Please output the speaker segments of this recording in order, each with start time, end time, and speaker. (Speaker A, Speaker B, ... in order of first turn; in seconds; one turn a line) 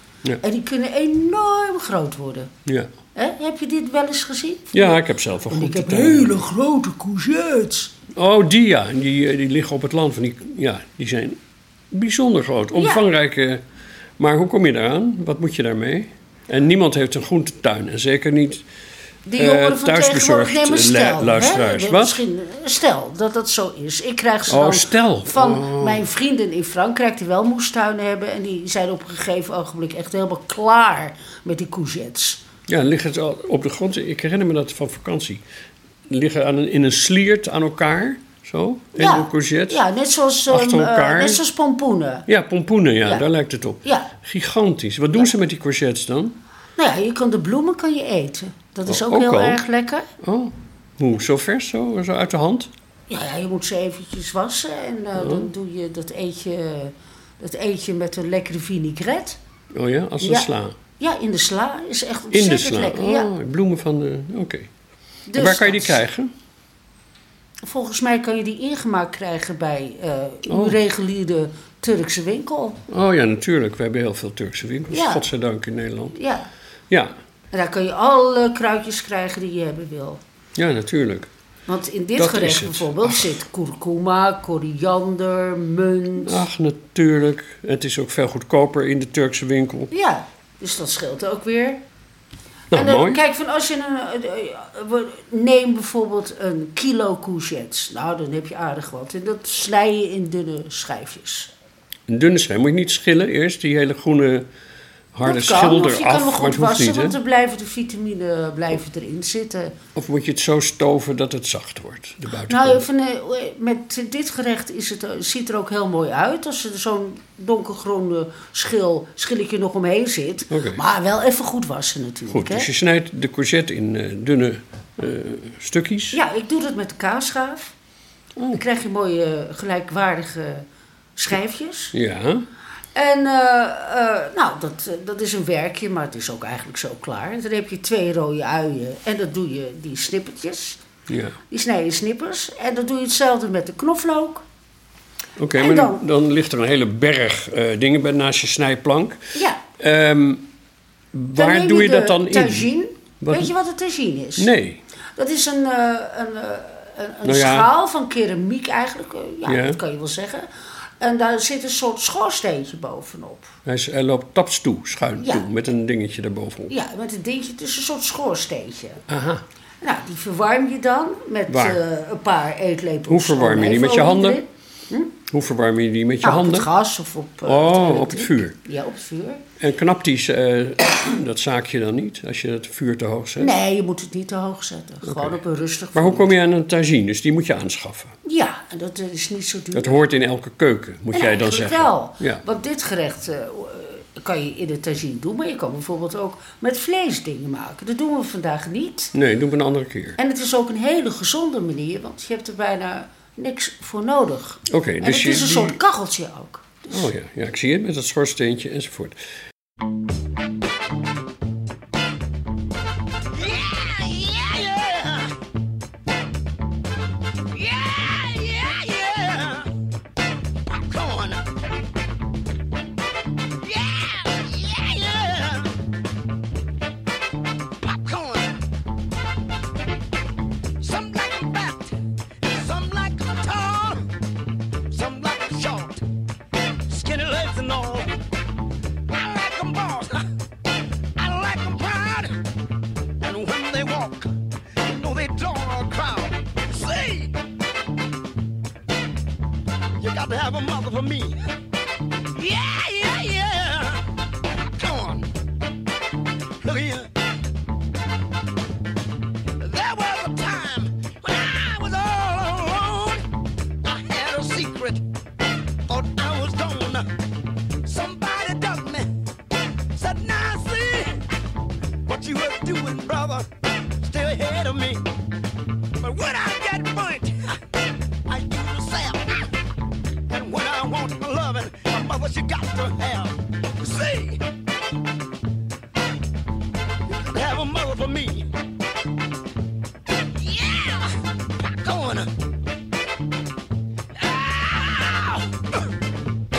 Speaker A: 0.4-2.5
Speaker B: 2.6-2.9
Speaker A: 3.1-7.9
Speaker B: 4.7-6.3
Speaker B: 8.1-11.4
Speaker B: 11.9-13.6
Speaker A: 12.7-13.1
Speaker B: 14.2-18.6
Speaker A: 19.2-32.4
Speaker B: 19.4-22.2
Speaker B: 24.5-26.0
Speaker B: 32.7-35.4
Speaker B: 36.1-39.8
Speaker A: 39.0-42.3
Speaker B: 40.5-41.4
Speaker B: 42.3-46.4
Speaker A: 43.8-44.1
Speaker A: 46.8-50.0
Speaker B: 48.9-49.6
Speaker B: 50.2-52.7
Speaker A: 53.1-59.4
Speaker B: 55.2-55.5
Speaker B: 59.7-60.7
Speaker A: 60.2-63.3
Speaker B: 62.3-64.7
Speaker A: 65.3-66.0
Speaker B: 65.3-66.3
Speaker A: 67.6-72.8
Speaker B: 70.5-70.8
Speaker B: 72.9-76.1
Speaker A: 74.9-75.3
Speaker A: 76.1-76.5
Speaker A: 77.5-80.2
Speaker B: 80.5-81.3
Speaker A: 81.7-86.4
Speaker B: 82.2-83.3
Speaker B: 86.2-89.9
Speaker A: 89.9-91.8
Speaker B: 92.7-93.2
Speaker A: 92.7-101.5
Speaker B: 102.1-104.5
Speaker B: 105.1-107.2
Speaker A: 105.2-109.7
Speaker B: 110.0-112.8
Speaker A: 112.5-122.7
Speaker B: 120.5-120.8
Speaker B: 122.3-126.2
Speaker A: 126.1-127.7
Speaker A: 128.5-131.9
Speaker B: 131.9-132.4
Speaker A: 132.9-140.8
Speaker B: 141.1-141.3
Speaker A: 141.5-144.4
Speaker B: 145.4-149.2
Speaker A: 145.5-146.0
Speaker A: 149.3-149.6
Speaker B: 149.8-150.4
Speaker B: 151.1-152.7
Speaker A: 151.3-154.5
Speaker B: 153.2-153.5
Speaker B: 154.4-154.8
Speaker A: 155.2-160.5
Speaker B: 157.2-157.7
Speaker B: 159.5-159.8
Speaker A: 161.0-163.5
Speaker B: 163.7-166.7
Speaker A: 165.2-165.4
Speaker A: 166.7-169.0
Speaker B: 169.1-169.4
Speaker A: 169.8-175.1
Speaker B: 171.5-171.8
Speaker B: 173.1-174.4
Speaker B: 175.3-176.7
Speaker A: 176.2-179.4
Speaker B: 177.4-178.5
Speaker B: 179.6-183.5
Speaker A: 183.4-186.3
Speaker B: 185.0-185.4
Speaker B: 185.9-188.1
Speaker A: 188.2-190.1
Speaker B: 189.7-192.4
Speaker A: 191.1-199.1
Speaker B: 199.1-200.2
Speaker A: 200.2-207.1
Speaker B: 204.7-205.8
Speaker B: 206.9-209.2
Speaker C: 213.3-215.3
Speaker C: 217.5-219.7
Speaker C: 220.7-221.4
Speaker C: 223.6-225.7
Speaker C: 227.8-228.6
Speaker C: 230.8-234.1
Speaker C: 234.9-236.1
Speaker C: 236.9-238.2
Speaker C: 239.1-240.2
Speaker C: 241.2-242.4
Speaker C: 243.2-247.3
Speaker C: 250.0-251.4
Speaker C: 252.3-254.1
Speaker C: 254.6-255.3
Speaker C: 256.6-257.1
Speaker C: 259.6-263.3
Speaker C: 263.8-265.0
Speaker C: 265.9-267.1
Speaker C: 267.8-269.1
Speaker C: 269.9-271.2
Speaker C: 272.1-275.1
Speaker C: 276.0-277.6
Speaker C: 278.3-279.5
Speaker C: 280.3-284.4
Speaker C: 287.1-288.5
Speaker C: 290.4-292.3
Speaker C: 294.2-295.4